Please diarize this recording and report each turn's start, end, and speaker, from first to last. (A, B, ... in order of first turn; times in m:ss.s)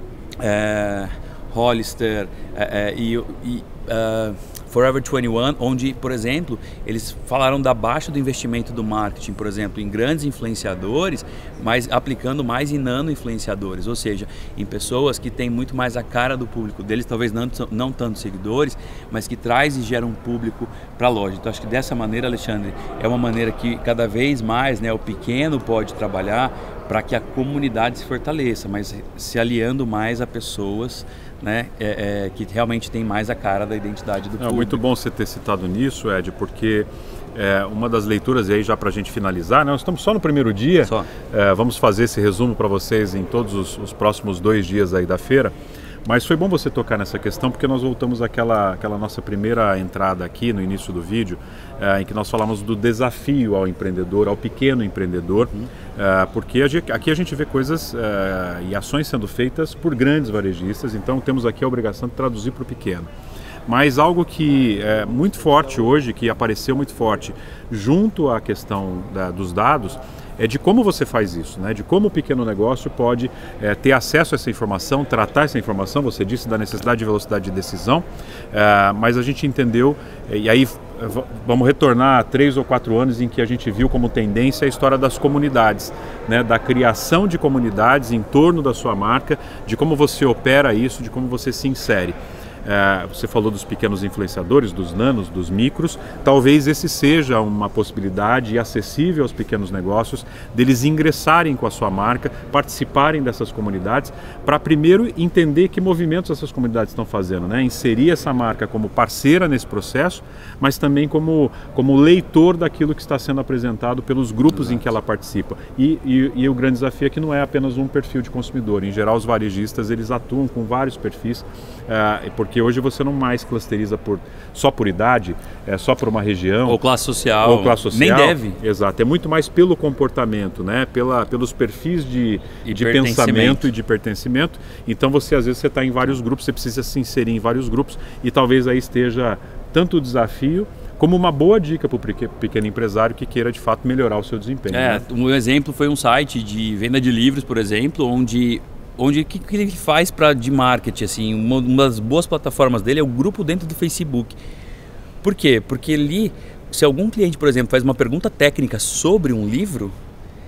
0:00.4-0:34.8 A
0:34.4-0:45.5 B
0:40.8-0:41.1 A
0:46.1-1:03.1 B
1:03.7-2:06.8 B
1:54.5-1:54.9 A
2:06.7-2:08.6 A
2:07.4-2:25.0 B
2:12.6-2:13.7 A
2:24.7-2:34.4 A
2:35.2-2:40.0 A